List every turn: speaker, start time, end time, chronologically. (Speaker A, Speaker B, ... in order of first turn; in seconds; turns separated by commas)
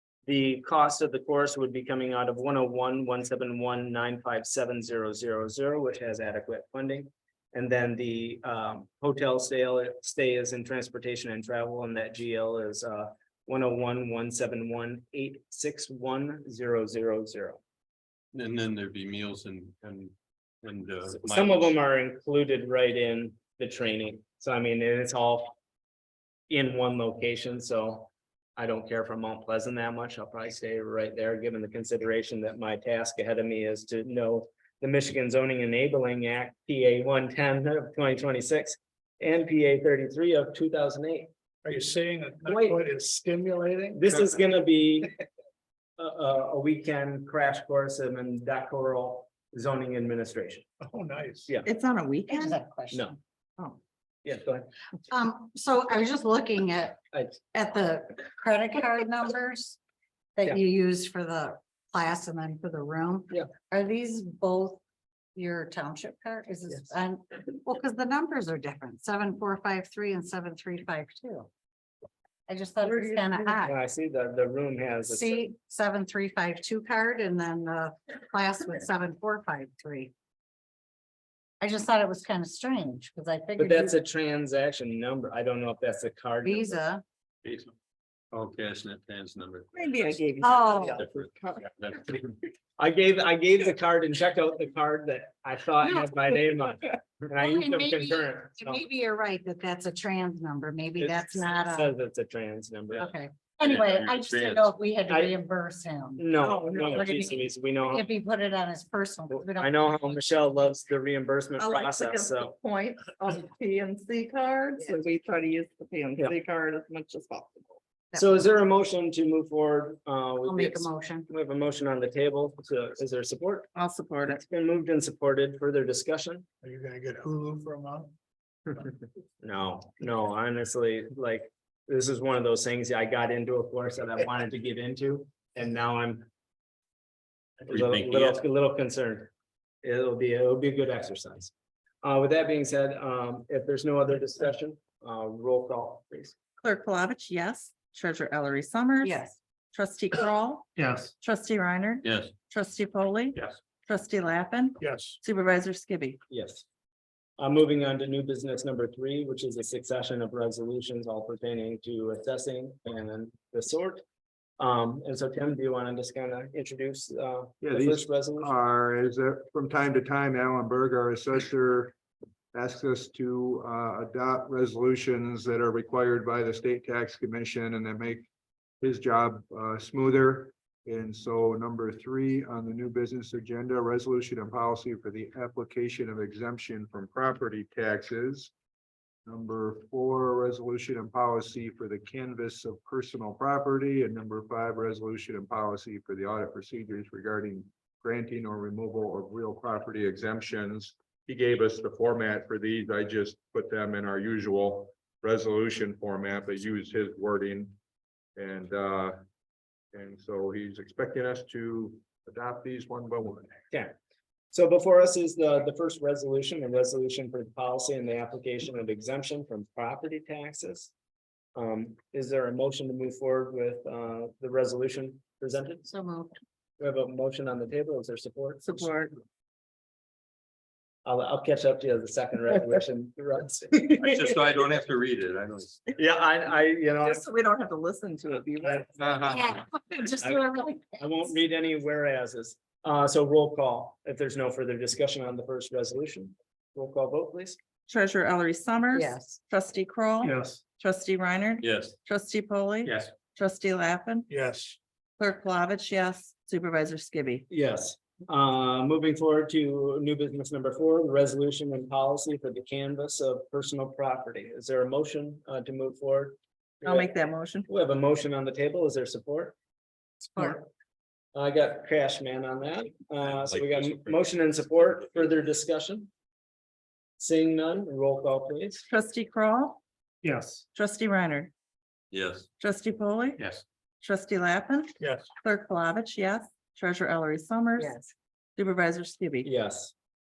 Speaker A: 0.3-17.6, Speaker B: 18.3-21.7, Speaker A: 21.1-25.6, Speaker A: 26.5-41.3, Speaker C: 41.6-44.1, Speaker A: 42.5-42.8, Speaker A: 43.9-45.2, Speaker A: 46.0-50.6, Speaker C: 50.8-51.5, Speaker D: 51.6-52.6, Speaker E: 52.3-53.2, Speaker A: 52.9-53.2, Speaker A: 54.2-54.7, Speaker E: 55.1-57.0, Speaker A: 57.1-57.4, Speaker E: 57.5-59.8, Speaker E: 60.4-64.8, Speaker E: 65.4-71.5, Speaker E: 72.5-73.8, Speaker A: 72.8-75.5, Speaker E: 75.1-80.1, Speaker E: 81.6-83.9, Speaker A: 83.6-86.8, Speaker E: 86.4-87.0, Speaker B: 87.4-87.7, Speaker B: 88.3-92.3, Speaker D: 89.7-91.6, Speaker E: 90.4-91.0, Speaker A: 92.8-98.8, Speaker E: 97.4-101.9, Speaker A: 101.0-103.1, Speaker E: 103.0-106.3, Speaker B: 103.6-104.8, Speaker A: 105.1-105.3, Speaker A: 106.2-108.1, Speaker D: 106.4-107.2, Speaker E: 106.9-110.3, Speaker A: 109.3-112.5, Speaker D: 111.6-117.8, Speaker A: 118.2-123.7, Speaker E: 120.5-121.3, Speaker D: 123.8-124.4, Speaker A: 124.3-126.5, Speaker C: 126.6-128.1, Speaker A: 129.4-136.3, Speaker A: 137.7-139.3, Speaker B: 137.7-138.4, Speaker A: 139.8-141.5, Speaker A: 142.0-146.3, Speaker D: 146.6-149.2, Speaker E: 149.0-149.4, Speaker D: 149.7-156.2, Speaker B: 152.0-152.3, Speaker C: 154.8-155.2, Speaker A: 156.3-156.7, Speaker A: 157.4-164.0, Speaker A: 164.6-168.5, Speaker F: 167.6-171.9, Speaker F: 172.5-178.3, Speaker F: 178.8-188.5, Speaker F: 189.3-207.8, Speaker F: 208.4-209.2, Speaker F: 209.9-213.6, Speaker A: 214.5-220.9, Speaker A: 221.6-225.9, Speaker E: 225.9-226.3, Speaker A: 226.8-228.9, Speaker D: 228.7-229.2, Speaker A: 231.1-234.3, Speaker B: 234.0-235.8, Speaker A: 236.0-237.2, Speaker D: 237.0-239.4, Speaker E: 239.2-241.0, Speaker A: 240.2-247.6, Speaker D: 247.9-254.3, Speaker E: 248.9-249.4, Speaker C: 250.2-250.6, Speaker B: 251.6-252.0, Speaker C: 254.3-254.8, Speaker D: 255.2-257.5, Speaker A: 257.5-267.1, Speaker D: 266.8-267.7, Speaker A: 267.7-269.6, Speaker E: 270.3-270.6, Speaker A: 271.3-276.1, Speaker B: 273.4-274.3, Speaker A: 277.2-278.9, Speaker D: 278.9-279.8, Speaker C: 280.2-280.6, Speaker D: 280.7-281.5, Speaker B: 282.1-282.5, Speaker D: 282.6-283.4, Speaker D: 284.0-289.5, Speaker C: 285.0-285.3, Speaker A: 289.4-289.9